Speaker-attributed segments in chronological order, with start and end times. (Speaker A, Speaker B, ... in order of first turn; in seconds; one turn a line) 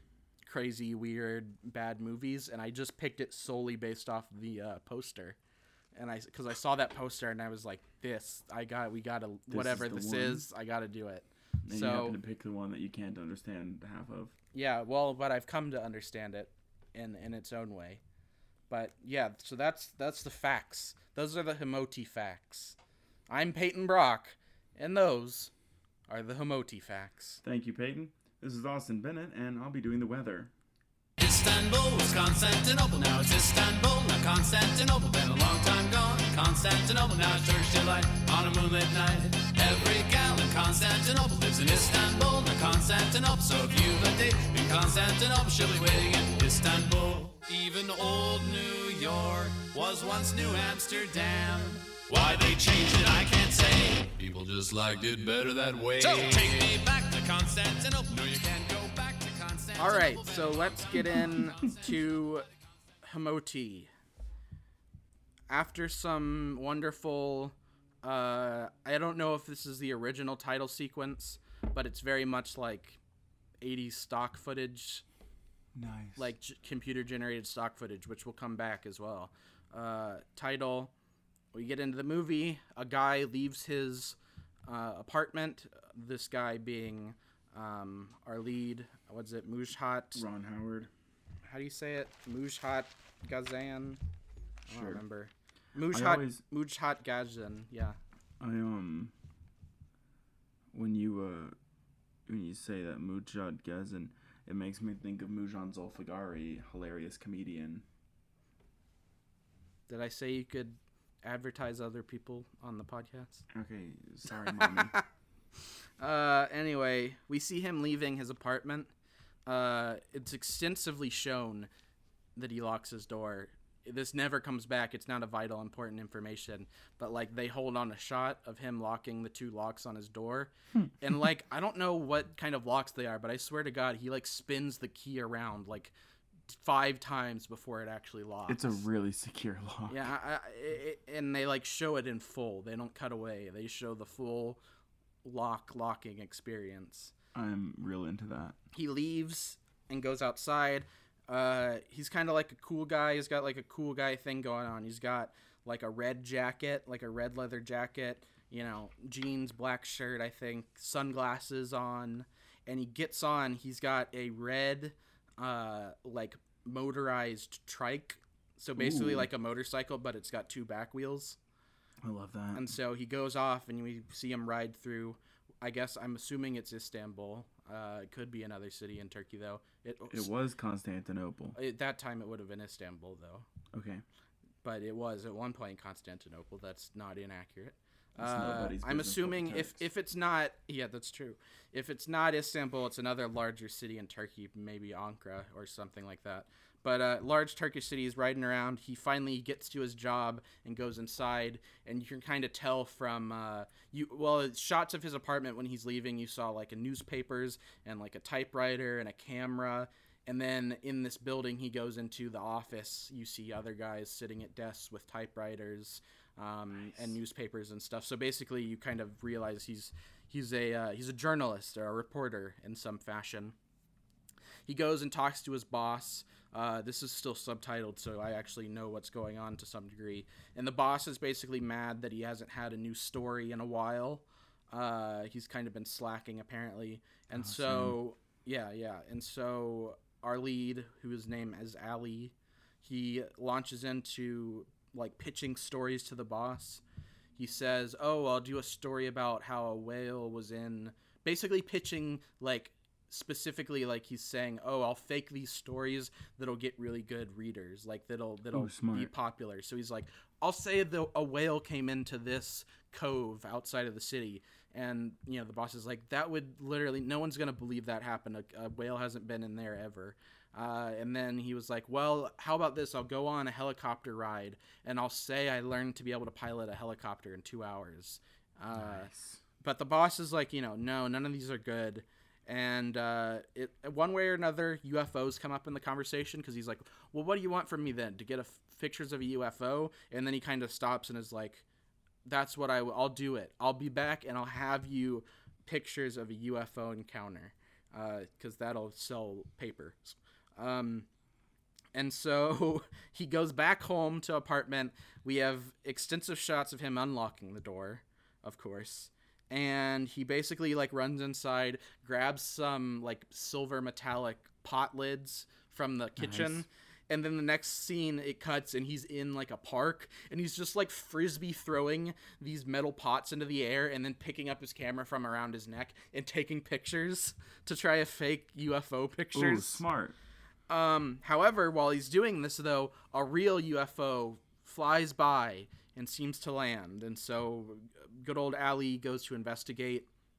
Speaker A: 0.5-5.4
Speaker A: 5.9-12.2
Speaker B: 9.5-10.4
Speaker B: 11.7-14.3
Speaker A: 14.5-18.0
Speaker A: 18.7-22.8
Speaker A: 23.3-25.5
Speaker A: 26.1-27.4
Speaker B: 27.4-30.5
Speaker C: 31.2-61.1
Speaker A: 59.8-62.5
Speaker B: 61.0-61.9
Speaker A: 63.0-63.9
Speaker A: 65.5-73.0
Speaker A: 73.6-75.0
Speaker B: 75.7-76.3
Speaker A: 76.2-80.9
Speaker A: 81.5-90.2
Speaker B: 90.1-90.9
Speaker A: 91.4-94.0
Speaker A: 94.7-98.0
Speaker B: 94.7-95.0
Speaker B: 95.9-96.4
Speaker B: 98.4-99.1
Speaker B: 100.7-101.5
Speaker B: 102.3-107.8
Speaker A: 109.9-113.4
Speaker B: 113.5-114.9
Speaker A: 114.5-115.0
Speaker A: 116.0-118.9
Speaker A: 119.5-121.7
Speaker A: 122.3-135.9
Speaker A: 136.5-138.8
Speaker B: 138.5-140.1
Speaker A: 139.9-144.6
Speaker A: 145.2-147.1
Speaker B: 147.3-148.6
Speaker A: 148.7-171.4
Speaker B: 168.8-169.3
Speaker B: 172.0-172.7
Speaker A: 172.5-180.3
Speaker B: 180.1-181.6
Speaker A: 181.5-183.4
Speaker B: 183.7-184.0
Speaker A: 184.6-223.5
Speaker B: 188.2-189.8
Speaker A: 224.7-246.8
Speaker B: 237.3-238.0
Speaker A: 247.4-291.6
Speaker B: 258.5-259.1
Speaker B: 278.7-279.4
Speaker A: 292.2-301.1
Speaker A: 301.9-329.8
Speaker B: 316.2-316.6
Speaker B: 329.3-330.1
Speaker A: 330.7-340.1